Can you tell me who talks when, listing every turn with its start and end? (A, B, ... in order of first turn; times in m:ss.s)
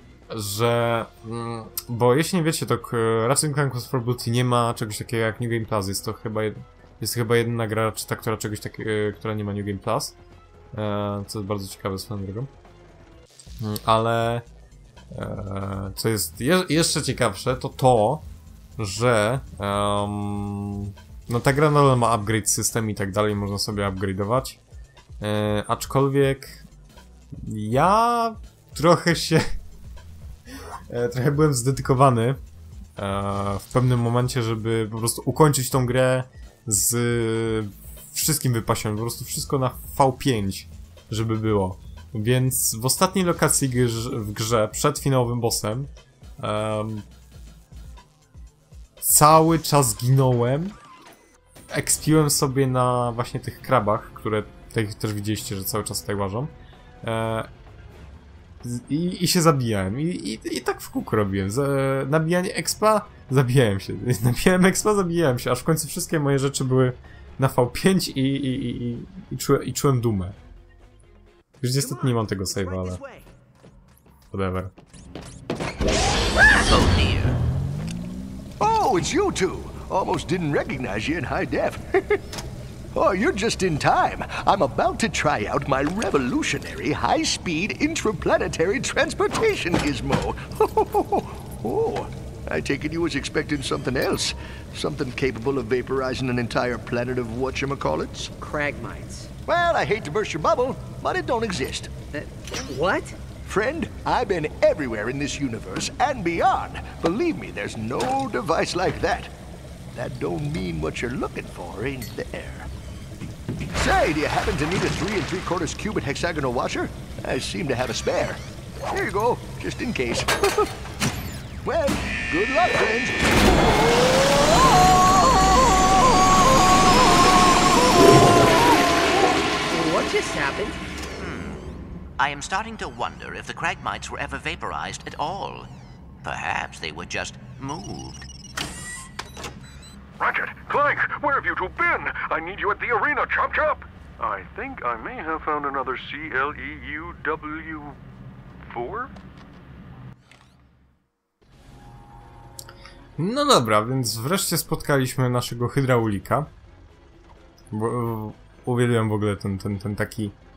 0:00.3-0:10.2 A
0:10.7-0:12.5 A
0:13.6-0:14.5 A
0:15.1-0:18.3 A
0:18.8-0:24.6 A
0:25.2-0:26.7 A
0:27.3-0:29.6 A
0:30.9-0:32.4 A
0:33.0-0:47.1 A
0:49.0-0:50.8 A
0:51.7-0:57.5 A
0:58.6-1:10.4 A
1:11.6-1:13.0 A
1:11.8-1:13.3 B
1:14.3-1:14.7 A
1:16.5-1:17.4 C
1:18.6-1:22.2 D
1:22.9-1:38.3 D
1:38.4-1:39.3 B
1:39.5-1:41.9 D
1:42.1-1:43.2 B
1:43.4-1:49.4 D
1:49.9-1:52.7 D
1:53.8-2:00.7 D
2:01.6-2:04.4 D
2:05.4-2:05.8 D
2:09.7-2:10.8 B
2:11.2-2:11.6 C
2:12.2-2:15.7 C
2:16.2-2:18.3 C
2:20.2-2:28.0 E
2:28.6-2:29.1 E
2:33.2-2:36.5 A
2:37.7-2:40.4 A